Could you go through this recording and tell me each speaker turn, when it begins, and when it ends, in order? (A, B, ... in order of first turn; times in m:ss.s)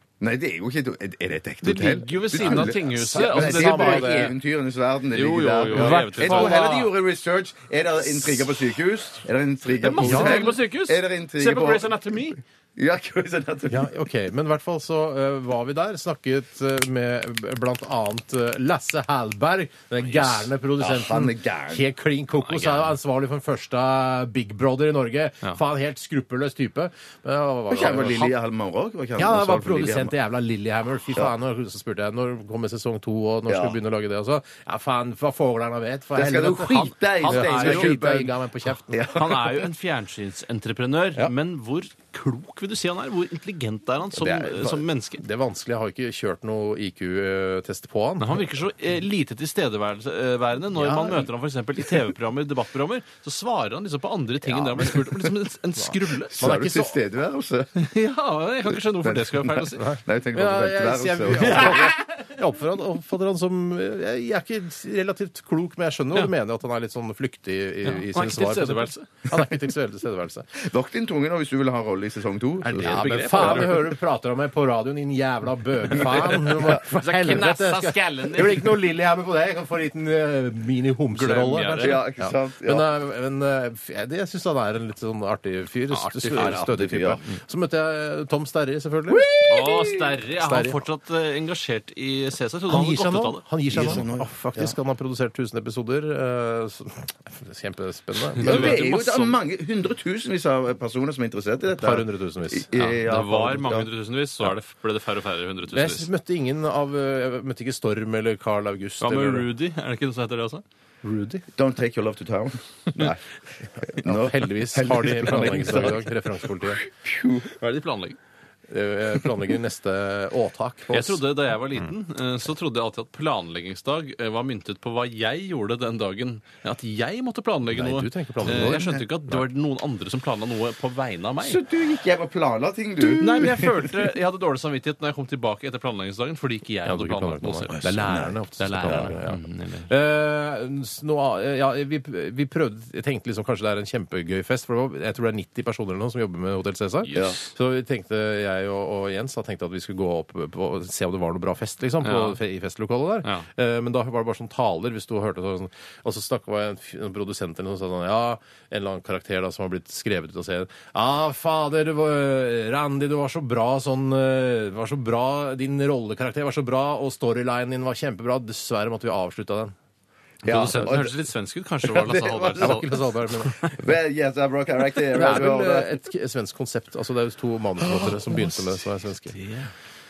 0:00.2-0:13.9 A
0:01.6-0:04.3 B
0:02.3-0:04.3 C
0:05.1-0:06.9 B
0:05.7-0:06.7 C
0:09.8-0:12.4 B
0:10.0-0:10.5 C
0:13.7-0:28.3 C
0:20.0-0:20.5 B
0:20.8-0:21.8 A
0:22.4-0:22.9 B
0:27.7-0:30.1 A
0:29.2-0:39.3 C
0:33.5-0:33.8 A
0:36.1-0:39.6 A
0:37.1-0:37.9 B
0:39.1-0:45.2 B
0:44.2-0:44.8 A
0:45.2-0:48.5 C
0:48.2-0:56.5 B
0:50.8-0:51.2 A
0:54.5-0:55.1 A
0:56.3-0:57.7 A
0:56.4-0:57.0 C
0:57.8-0:59.8 B
0:59.0-1:01.9 A
0:59.8-1:10.5 C
1:01.4-1:02.0 B
1:07.8-1:09.1 B
1:10.6-1:13.8 A
1:12.6-1:29.3 C
1:12.7-1:13.8 B
1:16.0-1:18.8 B
1:16.2-1:16.7 A
1:21.1-1:22.0 B
1:21.8-1:22.8 A
1:25.9-1:26.6 B
1:26.3-1:27.2 A
1:29.1-1:30.1 A
1:29.4-1:33.4 B
1:30.4-1:30.8 C
1:32.7-1:38.8 C
1:33.7-1:34.7 A
1:38.3-1:39.4 B
1:38.4-1:43.9 A
1:41.8-1:42.7 C
1:42.7-1:46.1 B
1:45.7-1:49.5 C
1:49.0-1:50.6 B
1:51.0-1:51.4 C
1:51.5-1:53.2 A
1:53.8-1:56.1 A
1:54.0-1:56.8 C
1:56.7-1:57.5 A
1:57.5-1:58.2 B
1:58.7-2:01.2 C
2:00.9-2:11.6 B
2:07.7-2:09.4 C
2:11.4-2:14.0 A
2:13.1-2:19.9 B
2:16.8-2:49.7 C
2:17.7-2:19.1 A
2:27.0-2:27.4 B
2:27.1-2:27.4 A
2:32.0-2:32.4 B
2:50.4-2:51.2 A
2:50.4-2:53.7 B
2:51.8-2:52.8 A
2:52.6-2:53.8 C
2:53.7-2:55.9 A
2:55.1-2:59.4 C
2:57.9-2:58.7 B
2:59.3-2:59.7 B